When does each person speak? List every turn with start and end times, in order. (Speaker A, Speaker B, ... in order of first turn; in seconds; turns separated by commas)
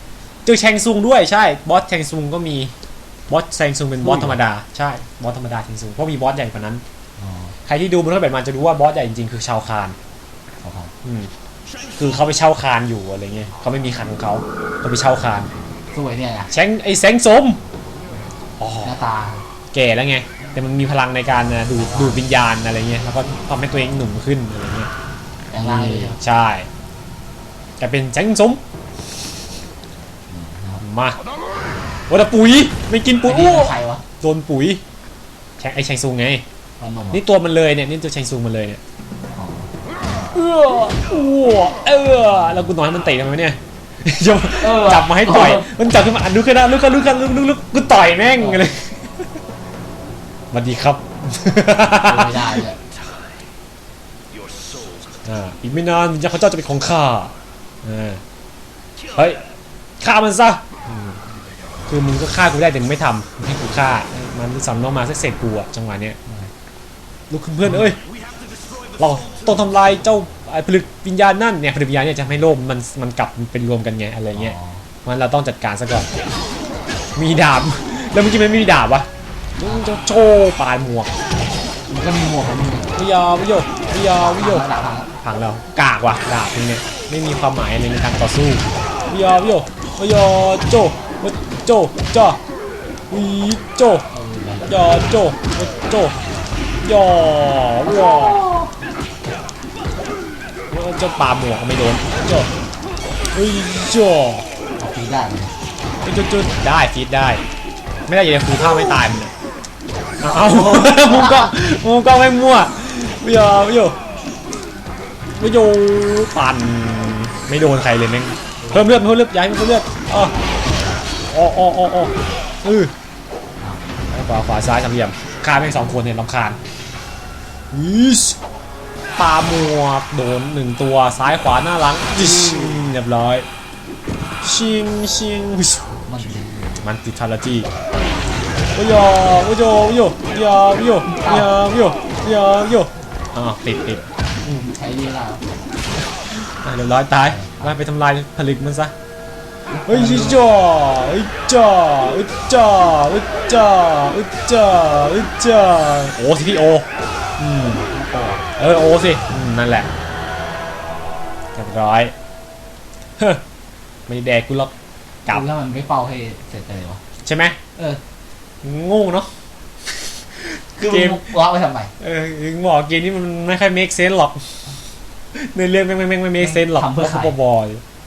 Speaker A: 0.5-2.7, Speaker A: 3.3-6.8, Speaker B: 4.0-4.4, Speaker B: 7.2-7.6, Speaker A: 7.7-10.0, Speaker B: 10.6-10.9, Speaker A: 11.0-11.3, Speaker A: 12.0-15.5, Speaker B: 15.9-16.5, Speaker A: 16.5-17.6, Speaker A: 18.6-19.0, Speaker B: 18.8-19.4, Speaker A: 19.7-24.9, Speaker B: 21.8-22.3, Speaker B: 25.5-26.2, Speaker A: 25.5-26.7, Speaker A: 27.8-28.6, Speaker B: 30.3-30.8, Speaker A: 30.8-31.2, Speaker A: 32.1-34.8, Speaker B: 33.2-34.0, Speaker A: 35.6-36.4, Speaker B: 36.8-37.2, Speaker A: 37.1-38.8, Speaker B: 39.3-40.3, Speaker A: 40.3-49.4, Speaker B: 42.3-42.7, Speaker B: 44.6-45.7, Speaker B: 48.4-48.7, Speaker A: 50.5-52.6, Speaker B: 51.9-52.8, Speaker A: 55.2-57.3, Speaker A: 57.8-58.2, Speaker A: 59.1-59.4, Speaker A: 60.0-61.2, Speaker A: 61.9-66.2, Speaker B: 66.3-66.5, Speaker A: 67.3-68.0, Speaker A: 69.0-74.5, Speaker B: 74.3-74.8, Speaker A: 75.0-76.1, Speaker A: 77.2-79.1, Speaker A: 79.6-81.1, Speaker B: 79.6-79.9, Speaker B: 81.9-83.0, Speaker A: 83.0-84.7, Speaker B: 84.1-85.1, Speaker A: 85.2-92.4, Speaker A: 93.1-94.1, Speaker B: 94.1-94.8, Speaker A: 94.7-96.2, Speaker A: 96.8-98.4, Speaker B: 97.8-98.7, Speaker A: 100.7-102.5, Speaker A: 103.3-104.5, Speaker B: 104.8-105.5, Speaker A: 106.0-107.4, Speaker A: 108.1-109.3, Speaker A: 110.2-114.0, Speaker B: 110.3-111.5, Speaker A: 115.3-120.3, Speaker B: 118.6-119.0, Speaker A: 121.3-122.9, Speaker A: 124.1-126.6, Speaker A: 127.7-128.4, Speaker A: 129.2-133.5, Speaker B: 132.1-132.9, Speaker A: 134.4-136.0, Speaker B: 136.1-136.8, Speaker A: 136.8-137.7, Speaker A: 138.8-144.6, Speaker B: 141.0-141.5, Speaker B: 144.4-145.5, Speaker A: 146.4-148.9, Speaker B: 147.3-147.7, Speaker B: 149.7-150.4, Speaker A: 149.9-156.9, Speaker A: 157.4-157.8, Speaker B: 157.6-158.5, Speaker A: 158.6-159.9, Speaker A: 161.6-162.1, Speaker A: 164.1-164.7, Speaker B: 165.3-167.0, Speaker A: 167.2-167.6, Speaker A: 168.6-169.3, Speaker A: 169.9-171.2, Speaker B: 170.8-171.9, Speaker A: 172.0-174.7, Speaker A: 175.3-177.8, Speaker B: 176.4-177.4